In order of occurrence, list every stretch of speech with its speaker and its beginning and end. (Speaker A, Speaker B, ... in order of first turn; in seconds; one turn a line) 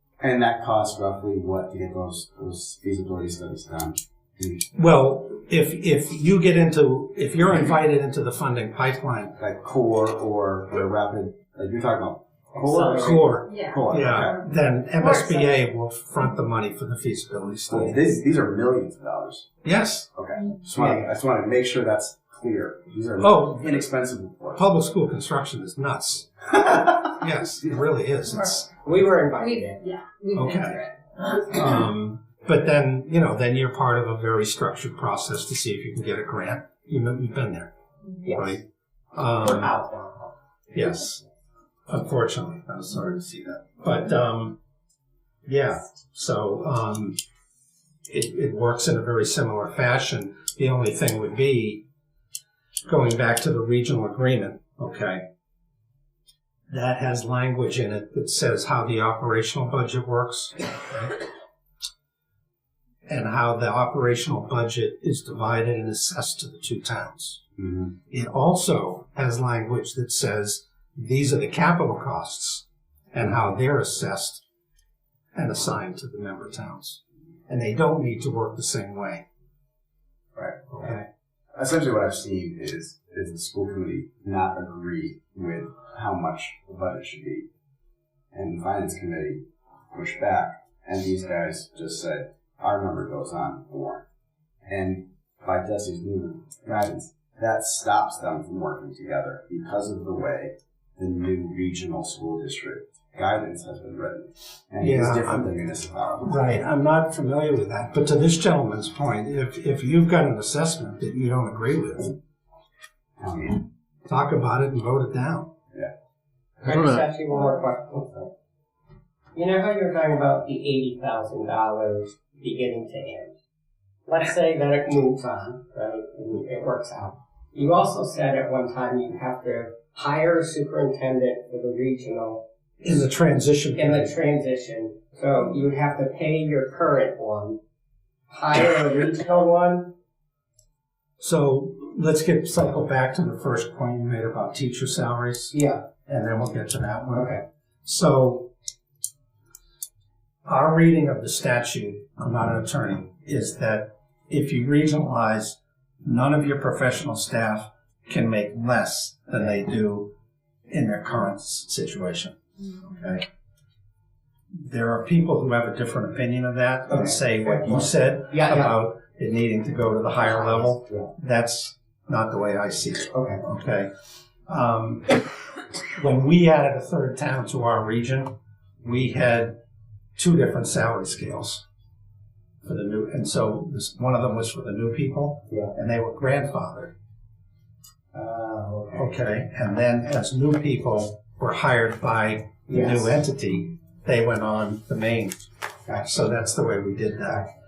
Speaker A: 0.2-4.6
Speaker B: 4.7-9.4
Speaker A: 9.4-14.4
Speaker C: 12.5-13.2
Speaker B: 12.9-18.0
Speaker D: 13.4-13.9
Speaker D: 15.0-15.5
Speaker A: 17.7-19.5
Speaker B: 19.6-20.1
Speaker A: 20.1-24.6
Speaker C: 20.8-21.1
Speaker B: 23.2-23.8
Speaker B: 24.5-28.7
Speaker C: 28.8-30.0
Speaker D: 29.4-30.9
Speaker B: 30.3-30.9
Speaker B: 31.4-37.7
Speaker C: 38.2-38.6
Speaker B: 38.2-38.6
Speaker B: 39.1-39.7
Speaker C: 39.4-40.3
Speaker B: 40.7-41.2
Speaker B: 41.9-44.6
Speaker B: 45.5-47.2
Speaker B: 48.1-51.9
Speaker B: 52.9-55.2
Speaker B: 56.7-61.2
Speaker B: 63.1-67.4
Speaker A: 67.6-67.9
Speaker B: 68.1-74.4
Speaker B: 75.3-79.2
Speaker A: 80.3-81.0
Speaker B: 80.7-81.0
Speaker A: 81.5-87.5
Speaker A: 88.3-94.0
Speaker A: 94.6-106.4
Speaker B: 104.8-105.5
Speaker B: 106.2-112.1
Speaker A: 113.2-113.6
Speaker B: 114.0-115.5
Speaker C: 116.6-118.3
Speaker C: 119.3-123.3
Speaker C: 124.0-132.4
Speaker B: 132.8-134.1
Speaker C: 133.7-137.6
Speaker C: 138.3-139.9
Speaker B: 141.2-148.5
Speaker C: 145.5-145.8
Speaker C: 147.1-147.4
Speaker B: 150.4-160.1
Speaker B: 160.7-163.2
Speaker B: 164.5-173.9
Speaker C: 166.9-168.7
Speaker C: 170.2-171.1
Speaker C: 173.1-173.4
Speaker B: 174.5-175.2
Speaker B: 175.9-179.6
Speaker B: 180.2-181.6
Speaker B: 182.6-186.9
Speaker C: 188.1-189.1
Speaker B: 188.9-195.3
Speaker C: 192.7-193.2
Speaker B: 195.9-197.5